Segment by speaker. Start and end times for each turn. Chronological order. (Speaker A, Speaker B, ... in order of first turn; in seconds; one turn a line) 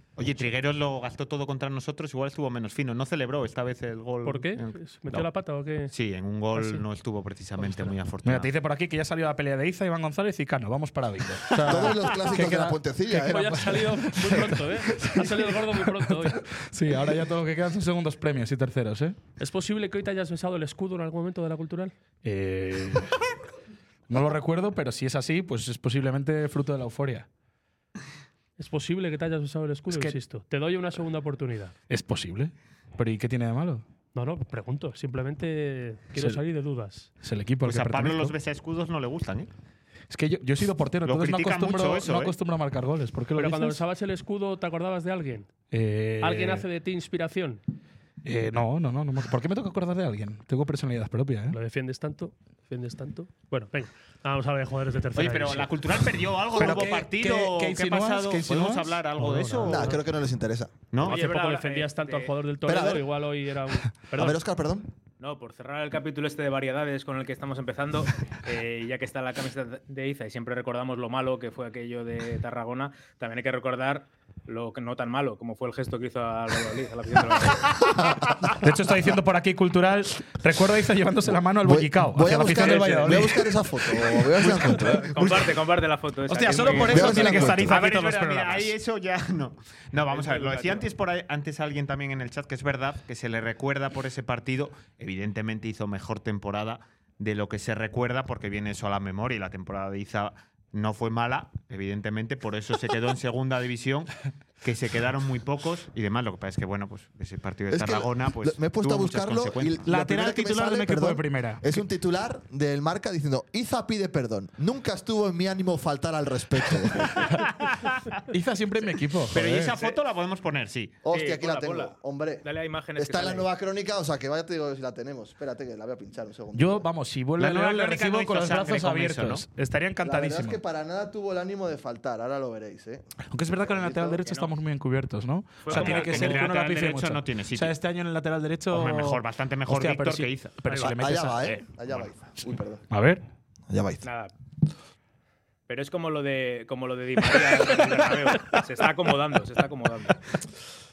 Speaker A: 0.2-5.3
Speaker B: 4.2-5.9
Speaker A: 5.9-8.5
Speaker C: 8.2-19.2
Speaker D: 11.6-14.0
Speaker B: 13.1-16.4
Speaker B: 19.4-21.9
Speaker C: 22.2-23.1
Speaker C: 24.1-27.3
Speaker B: 28.6-31.7
Speaker C: 29.9-30.2
Speaker C: 31.9-33.8
Speaker B: 34.1-37.1
Speaker C: 37.2-38.4
Speaker A: 37.6-39.5
Speaker C: 40.1-43.8
Speaker A: 41.0-42.4
Speaker B: 43.4-45.5
Speaker C: 45.7-46.6
Speaker B: 46.2-47.6
Speaker C: 48.2-51.6
Speaker B: 51.5-55.7
Speaker A: 55.2-60.0
Speaker C: 56.6-58.9
Speaker B: 59.2-60.0
Speaker D: 59.6-60.8
Speaker A: 60.9-61.2
Speaker E: 61.0-62.3
Speaker B: 61.0-64.4
Speaker D: 62.6-63.1
Speaker D: 64.2-64.9
Speaker E: 65.2-78.0
Speaker C: 78.5-83.5
Speaker D: 81.6-85.6
Speaker E: 82.6-83.2
Speaker C: 84.4-84.9
Speaker E: 84.5-87.7
Speaker C: 86.3-88.7
Speaker D: 86.7-87.7
Speaker A: 87.7-109.8
Speaker E: 90.1-90.9
Speaker D: 107.7-117.3
Speaker C: 109.9-111.7
Speaker C: 118.3-119.8
Speaker A: 119.3-121.0
Speaker D: 121.0-126.9
Speaker E: 121.1-123.5
Speaker C: 126.5-130.6
Speaker A: 127.4-129.4
Speaker D: 130.0-133.1
Speaker C: 133.3-141.7
Speaker D: 133.6-134.2
Speaker E: 134.2-134.5
Speaker E: 135.6-136.5
Speaker A: 135.7-137.7
Speaker A: 138.7-140.6
Speaker D: 140.8-142.8
Speaker C: 142.9-143.2
Speaker D: 143.7-144.1
Speaker E: 144.0-144.3
Speaker E: 145.7-150.4